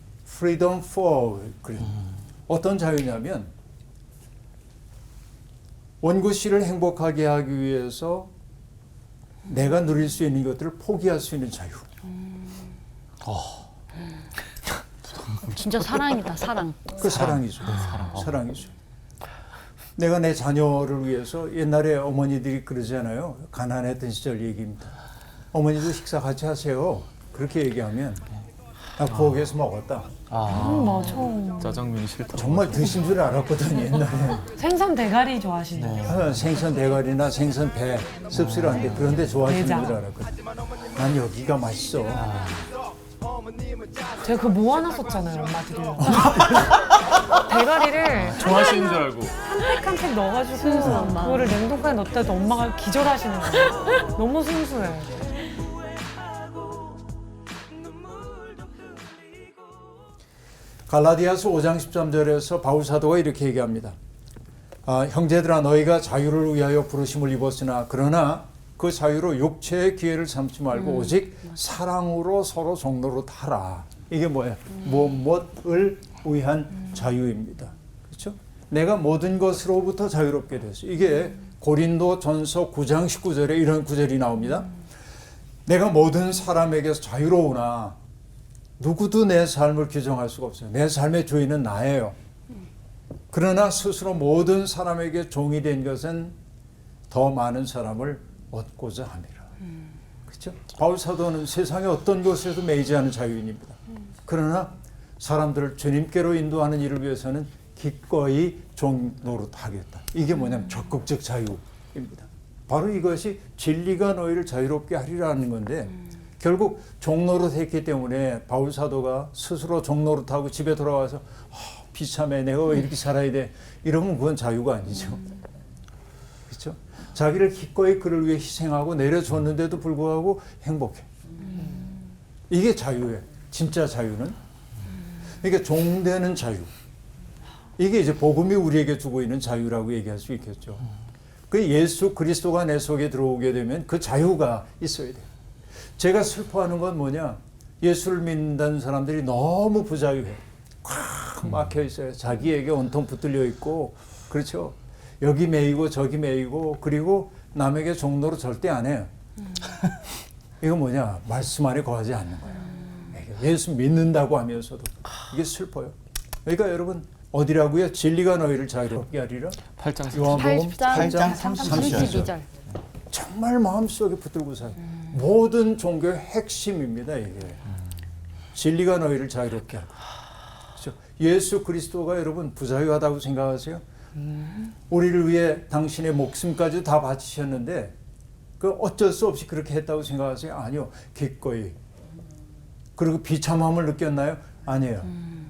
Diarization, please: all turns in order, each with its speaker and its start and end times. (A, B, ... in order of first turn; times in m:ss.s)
0:00.3-0:03.5 A
0:06.0-0:08.3 A
0:09.5-0:11.9 A
0:13.2-0:13.7 B
0:15.2-0:15.6 B
0:15.5-0:17.0 C
0:16.9-0:18.7 A
0:17.2-0:18.4 B
0:20.0-0:25.0 A
0:25.5-0:28.2 A
0:29.0-0:30.1 A
0:30.3-0:33.0 B
0:30.5-0:31.8 D
0:32.3-0:34.5 A
0:34.6-0:36.2 D
0:35.8-0:36.3 B
0:36.0-0:40.4 A
0:38.6-0:38.9 B
0:39.5-0:40.0 D
0:40.9-0:42.3 A
0:42.2-0:42.7 B
0:44.2-0:46.5 D
0:46.0-0:46.6 A
0:47.4-0:55.2 D
0:48.3-0:49.3 B
0:48.5-0:49.0 C
0:50.6-0:51.6 C
0:50.8-0:51.1 A
1:00.9-1:04.0 A
1:04.8-1:24.7 A
1:25.7-1:28.0 A
1:28.8-1:32.2 A
1:33.3-1:36.4 A
1:37.1-1:39.5 A
1:40.3-2:05.3 A
2:06.5-2:11.1 A
2:12.5-2:14.4 A
2:15.4-2:16.7 A
2:17.8-2:20.9 A
2:21.5-2:25.3 A
2:26.0-2:39.1 A
2:40.6-2:52.4 A
2:49.8-2:52.3 B
2:50.3-2:52.4 C
2:53.1-2:57.6 A
2:58.5-3:00.0 A
3:00.7-3:03.8 A
3:04.9-3:08.0 A
3:08.6-3:11.8 A
3:13.0-3:15.2 A